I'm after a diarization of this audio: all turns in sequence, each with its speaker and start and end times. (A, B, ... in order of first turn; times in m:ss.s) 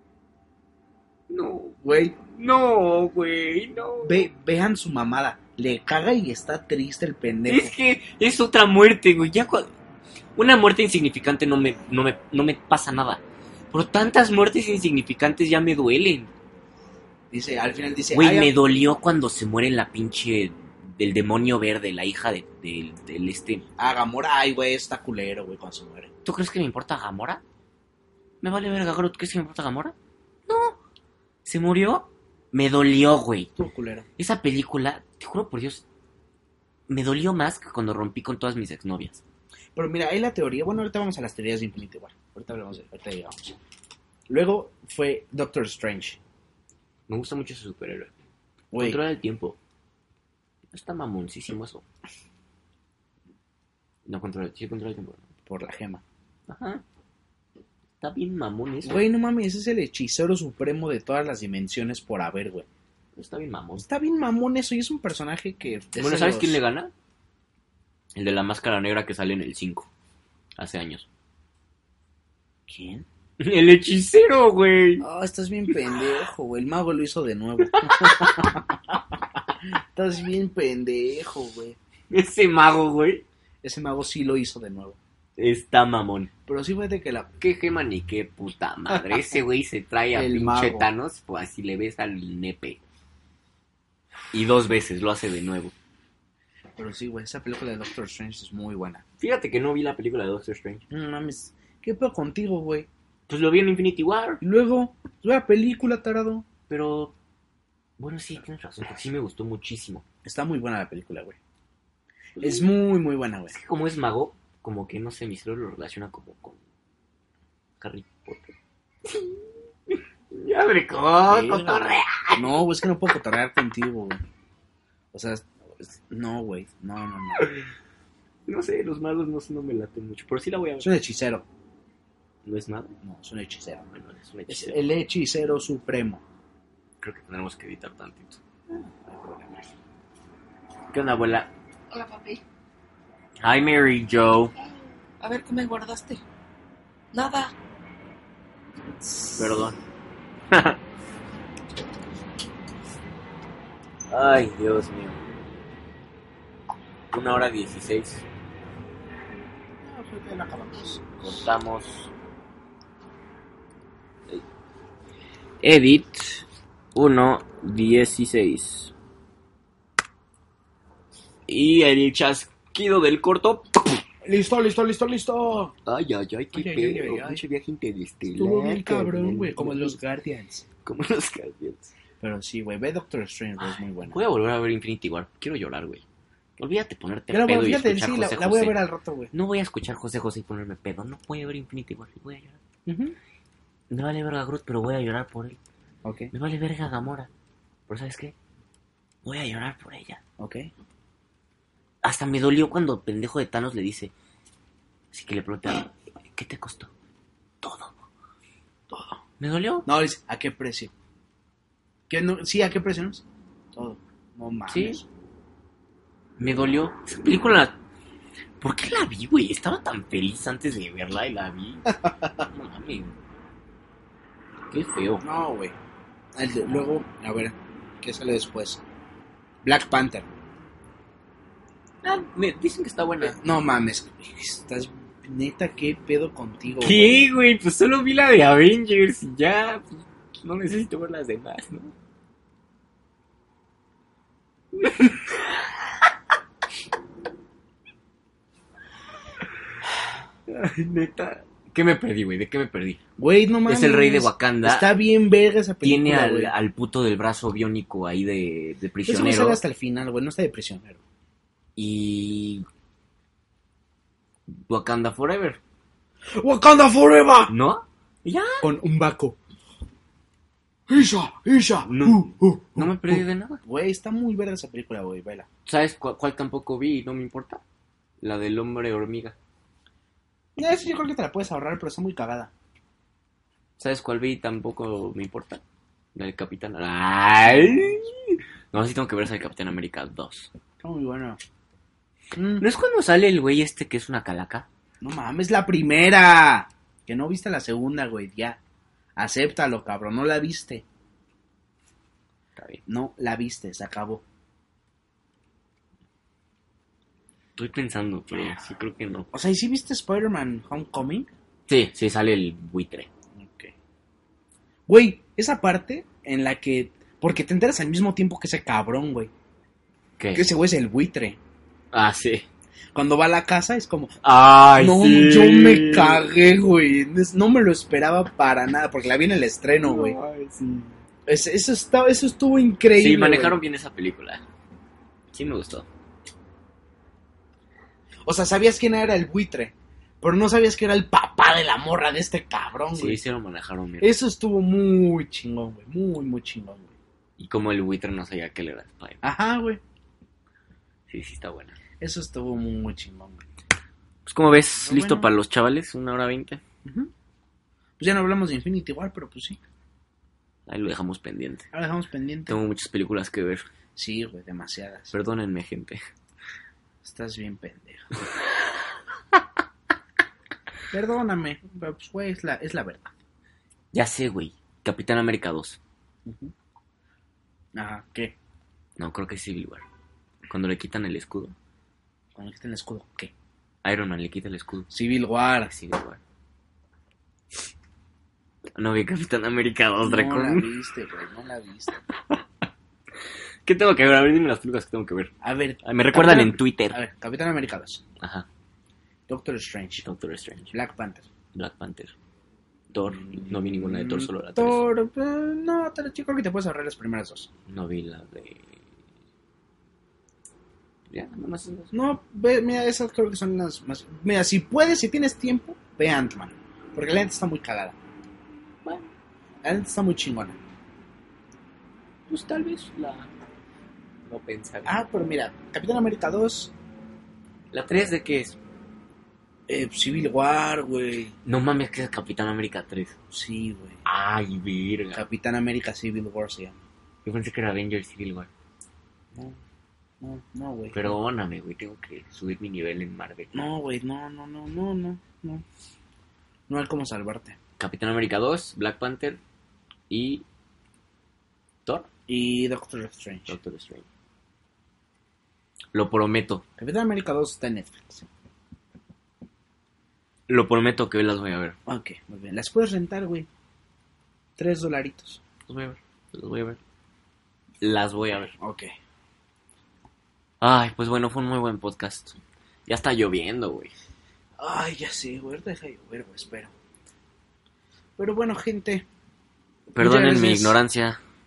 0:01.3-0:04.3 A
0:01.8-0:02.2 B
0:04.0-0:07.7 B
0:07.5-0:09.7 A
0:10.4-0:13.2 A
0:13.7-0:16.3 A
0:17.3-0:18.5 B
0:18.1-0:23.6 A
0:23.8-0:26.1 B
0:26.2-0:27.4 A
0:28.4-0:30.0 A
0:30.5-0:30.8 A
0:31.4-0:33.5 A
0:33.6-0:34.1 B
0:34.2-0:35.8 A
0:36.9-0:39.2 A
0:39.8-0:43.4 B
0:44.3-0:46.2 B
0:47.1-0:48.1 A
0:48.7-0:49.0 B
0:48.8-0:49.6 A
0:50.7-0:51.8 A
0:54.1-0:55.3 A
0:55.5-0:56.0 B
0:56.5-0:56.8 A
0:58.0-0:59.0 A
0:58.8-1:02.7 B
1:03.2-1:03.9 A
1:03.8-1:06.6 B
1:06.0-1:06.9 A
1:08.2-1:09.9 A
1:10.6-1:11.1 A
1:12.7-1:13.1 B
1:13.4-1:15.1 A
1:15.0-1:21.8 B
1:17.7-1:18.6 A
1:22.1-1:23.2 A
1:23.6-1:25.0 B
1:25.4-1:26.3 A
1:26.5-1:27.3 B
1:27.4-1:32.8 A
1:30.1-1:30.9 B
1:34.3-1:35.7 A
1:36.8-1:39.0 B
1:39.2-1:40.8 A
1:40.9-1:42.9 B
1:43.3-1:44.4 A
1:44.4-1:46.5 B
1:46.7-1:47.1 A
1:48.0-1:50.0 A
1:50.2-1:51.4 B
1:52.4-1:52.7 A
1:52.4-1:53.6 B
1:53.5-1:56.6 A
1:57.8-1:58.6 A
1:59.1-1:59.4 A
1:59.9-2:02.6 A
2:01.3-2:04.2 B
2:05.1-2:07.5 B
2:07.4-2:07.6 A
2:08.5-2:10.9 A
2:10.8-2:11.5 B
2:12.4-2:13.0 A
2:13.0-2:13.9 B
2:13.9-2:14.8 A
2:14.5-2:16.2 B
2:17.0-2:18.4 A
2:19.1-2:19.6 A
2:20.9-2:21.5 A
2:21.9-2:22.4 C
2:23.4-2:24.5 A
2:25.2-2:26.2 C
2:27.1-2:27.5 C
2:29.3-2:29.8 A
2:30.5-2:30.8 A
2:34.1-2:35.2 A
2:37.1-2:38.2 A
2:39.8-2:41.5 B
2:41.2-2:42.1 A
2:45.6-2:48.9 A
2:51.5-2:54.0 A
2:54.2-2:55.7 B
2:55.9-3:00.0 A
2:56.5-2:57.4 B
2:58.3-3:00.7 B
3:00.8-3:01.9 A
3:02.2-3:04.2 B
3:03.6-3:06.0 A
3:06.6-3:08.8 A
3:07.3-3:09.3 B
3:09.3-3:12.6 A
3:12.9-3:13.2 B
3:13.9-3:15.6 A
3:16.0-3:16.3 B
3:16.3-3:17.3 A
3:17.9-3:18.4 A
3:19.2-3:20.2 A
3:20.4-3:20.7 B
3:22.0-3:24.1 A
3:25.1-3:26.9 A
3:27.6-3:27.9 A
3:28.9-3:29.2 B
3:29.4-3:29.9 A
3:29.9-3:30.9 B
3:32.1-3:35.1 B
3:34.7-3:35.0 A
3:36.4-3:37.8 A
3:38.6-3:43.2 A
3:42.0-3:42.4 B
3:44.7-3:45.2 A
3:45.2-3:45.8 B
3:46.4-3:48.8 B
3:49.6-3:50.3 B
3:52.0-3:53.4 A
3:53.2-3:57.3 B
3:56.8-4:01.9 A
4:04.8-4:05.8 A
4:10.5-4:13.0 A
4:13.2-4:16.5 B
4:13.7-4:14.9 A
4:15.8-4:19.6 A
4:19.1-4:21.0 B
4:21.8-4:22.7 A
4:24.5-4:25.6 A
4:26.4-4:27.5 B
4:27.5-4:28.7 A
4:28.6-4:29.4 B
4:30.9-4:35.5 B
4:31.9-4:33.6 A
4:35.7-4:37.6 A
4:38.2-4:39.4 A
4:40.6-4:42.5 B
4:43.8-4:45.6 A
4:46.2-4:50.5 A
4:47.4-4:48.1 B
4:50.8-4:51.4 B
4:52.3-4:52.6 B
4:52.6-4:54.7 A
4:55.0-4:58.6 B
4:59.2-5:00.8 B
5:02.6-5:02.8 A
5:02.9-5:04.2 B
5:07.6-5:09.3 A
5:09.3-5:11.3 B
5:11.7-5:13.1 A
5:13.4-5:13.7 B
5:14.9-5:19.3 B
5:20.2-5:20.4 A
5:20.4-5:21.4 B
5:21.9-5:22.5 A
5:22.9-5:24.2 B
5:24.2-5:26.3 A
5:24.7-5:30.2 B
5:29.8-5:31.0 A
5:31.3-5:33.6 B
5:32.9-5:34.4 A
5:35.3-5:35.9 A
5:38.2-5:43.2 B
5:42.9-5:44.2 A
5:44.0-5:47.0 B
5:47.4-5:49.2 A
5:49.2-5:49.8 B
5:51.1-5:51.8 A
5:52.0-5:53.4 B
5:54.3-5:56.6 A
5:54.8-5:55.3 B
5:56.8-5:57.1 B
5:58.0-5:59.6 B
6:00.7-6:01.7 A
6:01.7-6:02.6 B
6:02.5-6:03.7 A
6:04.0-6:05.1 B
6:05.1-6:06.0 A
6:07.0-6:08.1 B
6:10.9-6:13.1 B
6:13.9-6:15.8 A
6:16.2-6:16.5 B
6:17.8-6:18.4 B
6:19.0-6:19.8 A
6:20.5-6:21.6 A
6:22.4-6:23.3 B
6:23.8-6:24.9 A
6:24.9-6:25.7 B
6:25.6-6:26.2 A
6:28.8-6:30.7 A
6:30.0-6:32.0 B
6:33.6-6:37.0 A
6:35.4-6:38.0 B
6:38.2-6:38.5 A
6:39.3-6:40.1 B
6:40.0-6:40.7 A
6:40.7-6:41.3 B
6:41.5-6:42.2 A
6:42.9-6:44.8 A
6:43.1-6:47.5 B
6:47.7-6:48.8 A
6:51.1-6:51.9 A
6:51.9-6:58.0 B
6:58.8-6:59.1 A
6:59.6-7:00.6 B
7:02.3-7:03.3 A
7:04.3-7:05.0 A
7:04.9-7:06.7 B
7:07.7-7:08.6 A
7:09.7-7:11.4 B
7:11.4-7:13.2 A
7:13.3-7:14.0 B
7:14.0-7:15.2 A
7:15.2-7:16.8 B
7:17.2-7:18.5 A
7:20.2-7:21.2 B
7:20.9-7:23.7 A
7:23.5-7:25.6 B
7:26.7-7:27.6 B
7:27.8-7:29.4 A
7:30.1-7:30.4 A
7:32.3-7:33.6 B
7:33.5-7:34.1 A
7:35.9-7:36.6 A
7:36.8-7:38.3 B
7:40.5-7:41.8 A
7:41.9-7:43.5 B
7:44.6-7:45.4 B
7:45.7-7:46.8 A
7:47.8-7:48.6 A
7:48.6-7:48.9 B
7:50.6-7:53.9 A
7:54.6-7:56.7 B
7:58.2-7:59.1 B
7:59.9-8:01.2 A
8:00.0-8:00.8 B